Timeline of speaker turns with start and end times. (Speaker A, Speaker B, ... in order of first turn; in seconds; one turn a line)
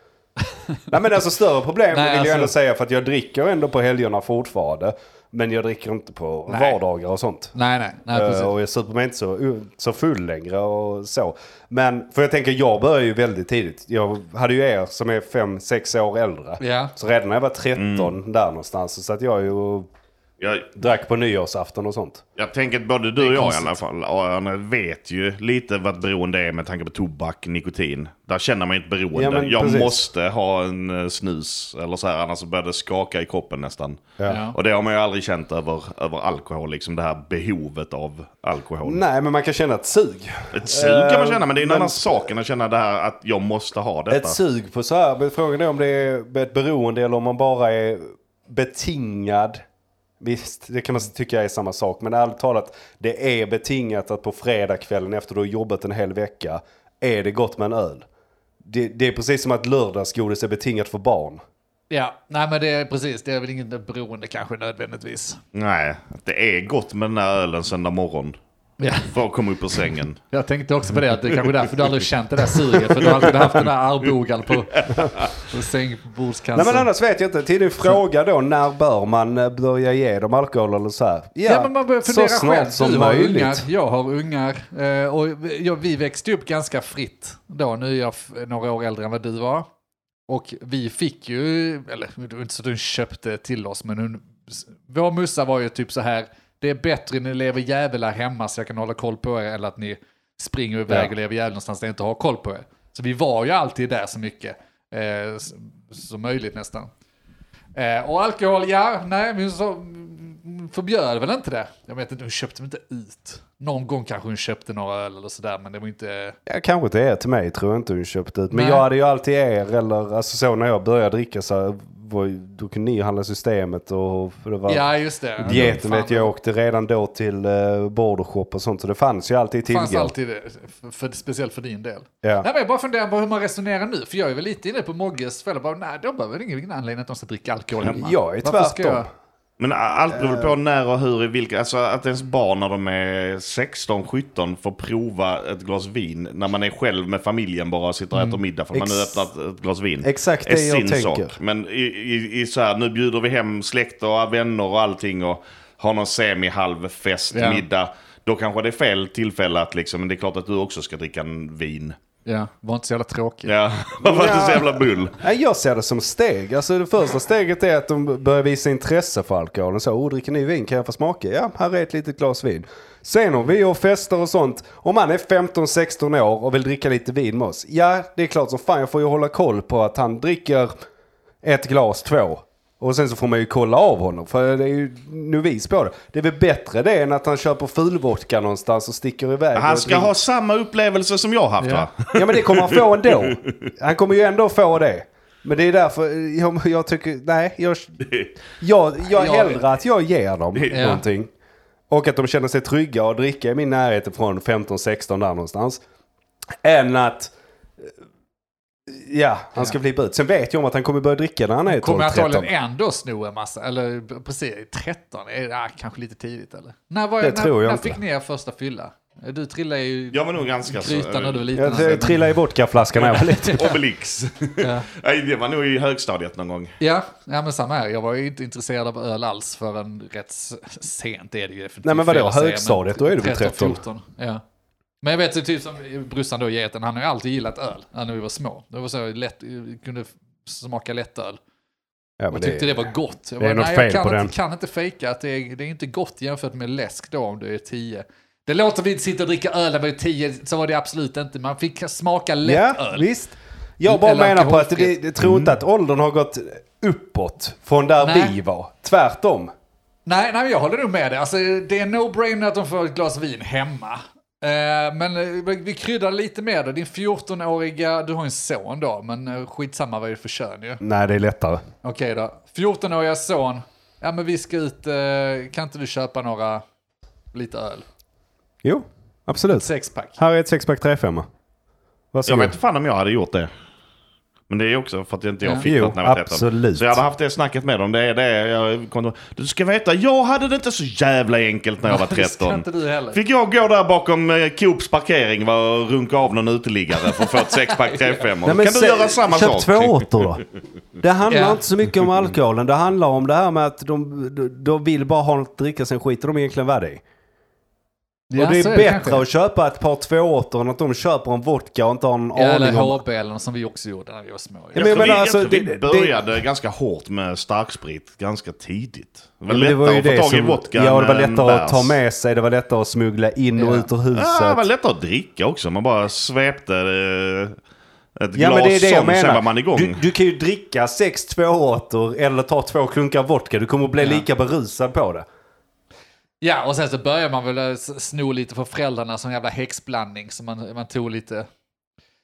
Speaker A: 0.9-7.5
Speaker B: 1.9-2.5
Speaker B: 6.5-6.8
Speaker B: 7.5-8.5
Speaker A: 8.1-19.9
Speaker B: 16.6-16.9
Speaker C: 17.8-18.1
Speaker C: 20.4-20.7
Speaker A: 20.7-22.2
Speaker C: 22.4-39.0
Speaker B: 23.2-23.7
Speaker A: 29.1-30.0
Speaker B: 34.3-34.5
Speaker A: 38.8-42.2
Speaker C: 40.5-44.4
Speaker A: 44.1-49.6
Speaker A: 50.2-58.0
Speaker A: 58.6-61.4
Speaker B: 61.9-65.4
Speaker C: 65.5-68.4
Speaker B: 68.8-69.1
Speaker C: 69.1-70.2
Speaker B: 70.3-76.9
Speaker C: 71.3-71.7
Speaker C: 72.7-73.7
Speaker C: 74.9-75.3
Speaker A: 76.5-83.6
Speaker B: 81.5-89.7
Speaker B: 90.3-106.9
Speaker B: 107.7-116.4
Speaker A: 116.5-124.8
Speaker B: 118.5-118.8
Speaker B: 124.7-126.3
Speaker A: 125.4-130.1
Speaker C: 125.5-125.7
Speaker B: 129.7-139.1
Speaker A: 137.8-139.1
Speaker C: 139.6-162.0
Speaker A: 140.1-140.5
Speaker B: 148.1-148.4
Speaker A: 148.7-149.2
Speaker A: 150.0-151.3
Speaker B: 157.3-157.6
Speaker B: 162.2-163.5
Speaker C: 163.4-165.2
Speaker A: 164.0-180.7
Speaker A: 181.4-190.1
Speaker C: 189.5-193.5
Speaker B: 191.6-191.9
Speaker A: 192.1-198.0
Speaker A: 198.6-201.3
Speaker B: 199.2-199.6
Speaker B: 200.7-201.0
Speaker A: 201.9-205.8
Speaker A: 206.6-207.8
Speaker A: 208.9-212.5
Speaker B: 211.7-222.3
Speaker A: 217.2-218.0
Speaker C: 220.1-221.5
Speaker A: 221.5-223.7
Speaker C: 223.0-226.8
Speaker B: 223.2-223.6
Speaker B: 224.6-224.9
Speaker B: 226.8-234.4
Speaker A: 231.8-233.8
Speaker B: 235.0-241.4
Speaker A: 242.2-242.7
Speaker B: 242.3-253.1
Speaker A: 243.4-244.3
Speaker A: 252.4-259.5
Speaker B: 253.9-255.0
Speaker C: 255.2-255.5
Speaker B: 258.0-258.3
Speaker B: 260.1-270.8
Speaker A: 270.8-271.6
Speaker B: 271.8-276.6
Speaker B: 277.3-277.8
Speaker A: 278.6-281.2
Speaker B: 279.5-280.2
Speaker A: 282.1-282.5
Speaker C: 282.2-283.5
Speaker C: 284.5-300.2
Speaker A: 285.6-287.0
Speaker B: 291.8-293.2
Speaker B: 297.7-298.3
Speaker A: 298.4-300.4
Speaker A: 301.0-307.0
Speaker B: 301.3-301.6
Speaker A: 308.3-313.0
Speaker B: 308.3-309.2
Speaker B: 312.4-315.1
Speaker A: 314.7-316.2
Speaker C: 314.7-321.9
Speaker A: 319.5-324.6
Speaker B: 323.6-323.9
Speaker C: 324.1-327.6
Speaker C: 328.2-330.0
Speaker A: 328.3-335.2
Speaker B: 336.4-341.5